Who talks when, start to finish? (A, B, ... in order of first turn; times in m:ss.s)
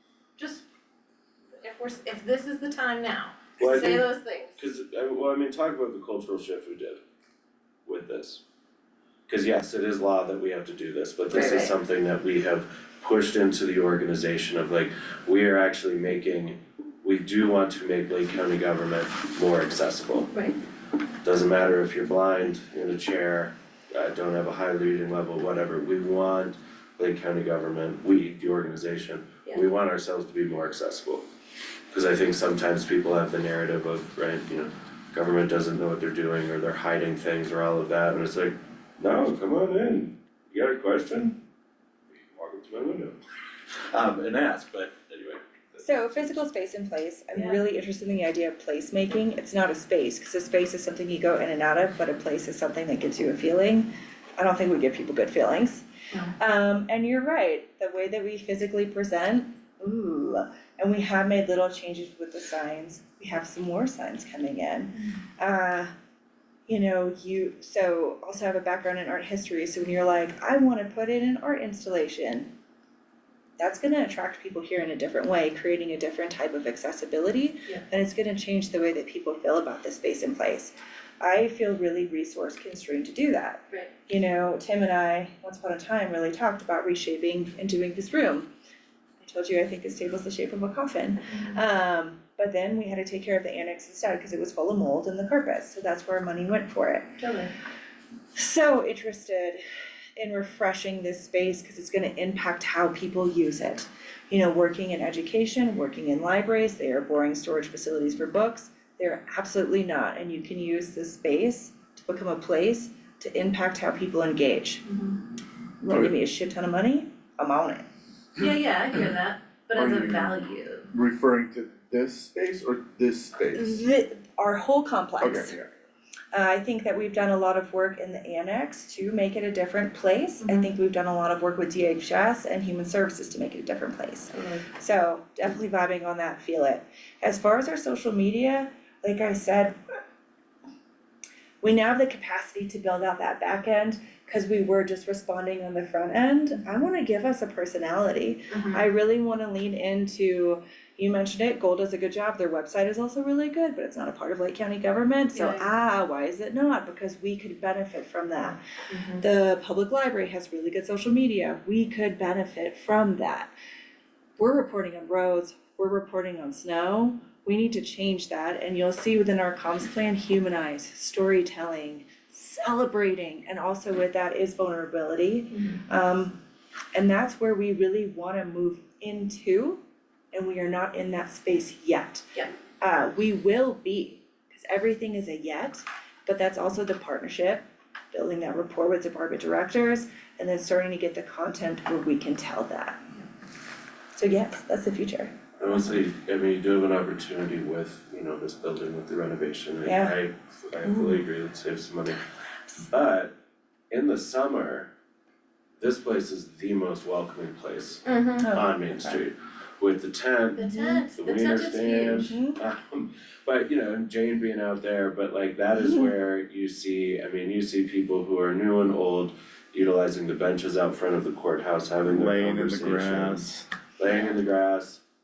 0:00.4-0:00.6 A
0:01.6-0:04.6 A
0:03.6-0:07.0 B
0:07.9-0:08.4 B
0:09.3-0:20.3 B
0:11.3-0:11.7 A
0:20.3-0:20.6 A
0:21.2-0:31.2 B
0:31.9-0:41.4 B
0:42.1-0:43.2 B
0:43.9-0:46.4 B
0:45.8-0:55.9 C
0:56.4-1:05.9 C
1:06.7-1:12.5 C
1:13.6-1:28.5 C
1:29.2-1:37.2 C
1:37.2-1:37.5 A
1:38.4-1:39.6 C
1:40.2-1:54.9 C
1:55.8-1:57.8 C
1:55.9-1:56.1 D
1:58.4-2:00.9 A
1:59.7-2:00.4 D
2:00.9-2:03.8 D
2:03.5-2:05.6 C
2:05.2-2:05.7 D
2:06.3-2:19.8 C
2:10.4-2:10.7 A
2:14.3-2:14.6 A
2:21.6-2:38.6 C
2:28.5-2:28.9 A
2:35.3-2:35.7 A
2:38.9-2:39.2 A
2:39.2-2:43.5 C
2:44.4-2:56.4 C
2:57.0-2:59.8 C
3:00.3-3:13.0 C
3:14.2-3:15.4 C
3:15.6-3:22.2 B
3:19.8-3:20.2 C
3:22.9-3:23.3 B
3:23.9-3:24.9 B
3:25.8-3:30.6 B
3:28.0-3:28.5 A
3:28.4-3:29.2 C
3:30.6-3:32.3 A
3:30.6-3:31.0 C
3:31.1-3:45.0 B
3:32.3-3:32.6 C
3:42.1-3:43.6 D